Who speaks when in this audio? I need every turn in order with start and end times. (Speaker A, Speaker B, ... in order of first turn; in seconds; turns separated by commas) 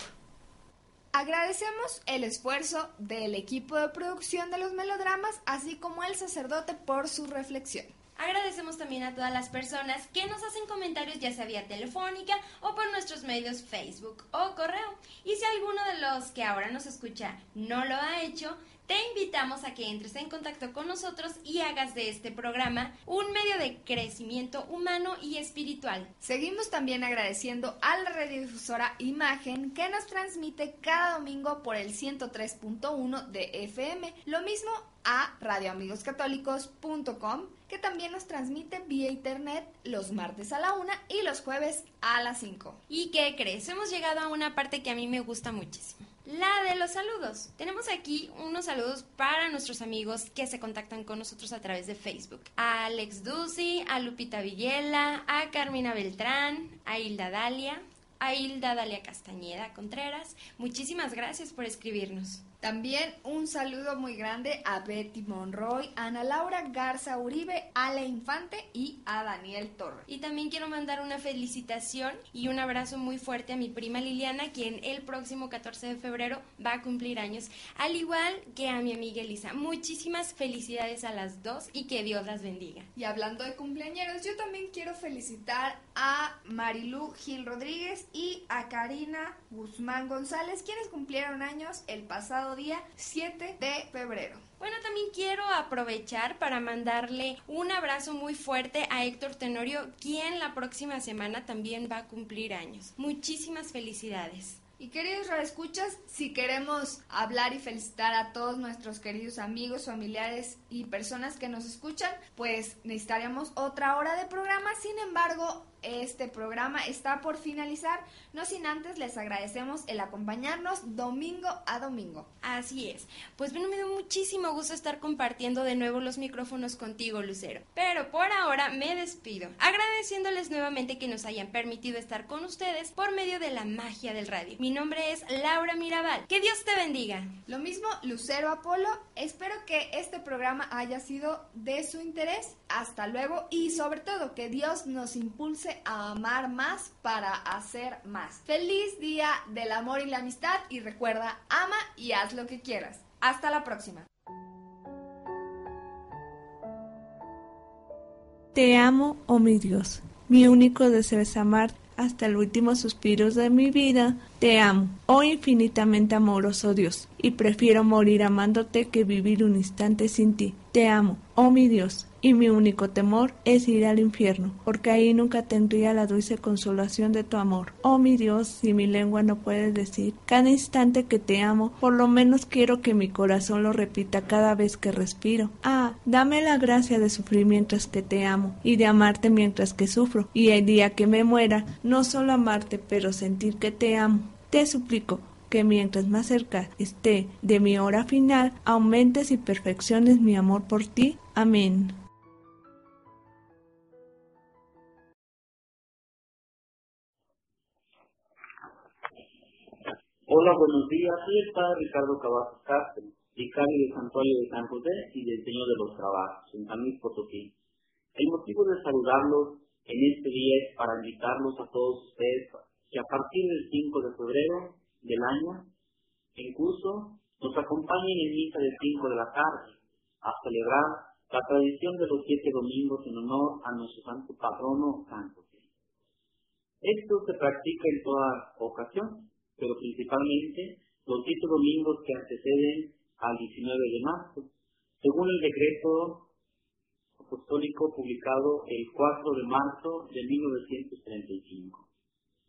Speaker A: 1.1-7.9, Speaker B: 8.2-26.1, Speaker A: 26.2-42.8, Speaker B: 42.9-62.4, Speaker A: 62.6-70.0, Speaker B: 70.1-82.9, Speaker A: 83.0-94.4, Speaker B: 94.6-104.6, Speaker A: 104.8-122.3, Speaker B: 122.4-137.3, Speaker A: 137.5-154.1, Speaker C: 158.5-202.0, Speaker D: 210.3-217.5, Speaker D: 218.1-225.7, Speaker D: 226.3-235.6, Speaker D: 236.8-244.5, Speaker D: 245.0-246.3, Speaker D: 247.2-251.8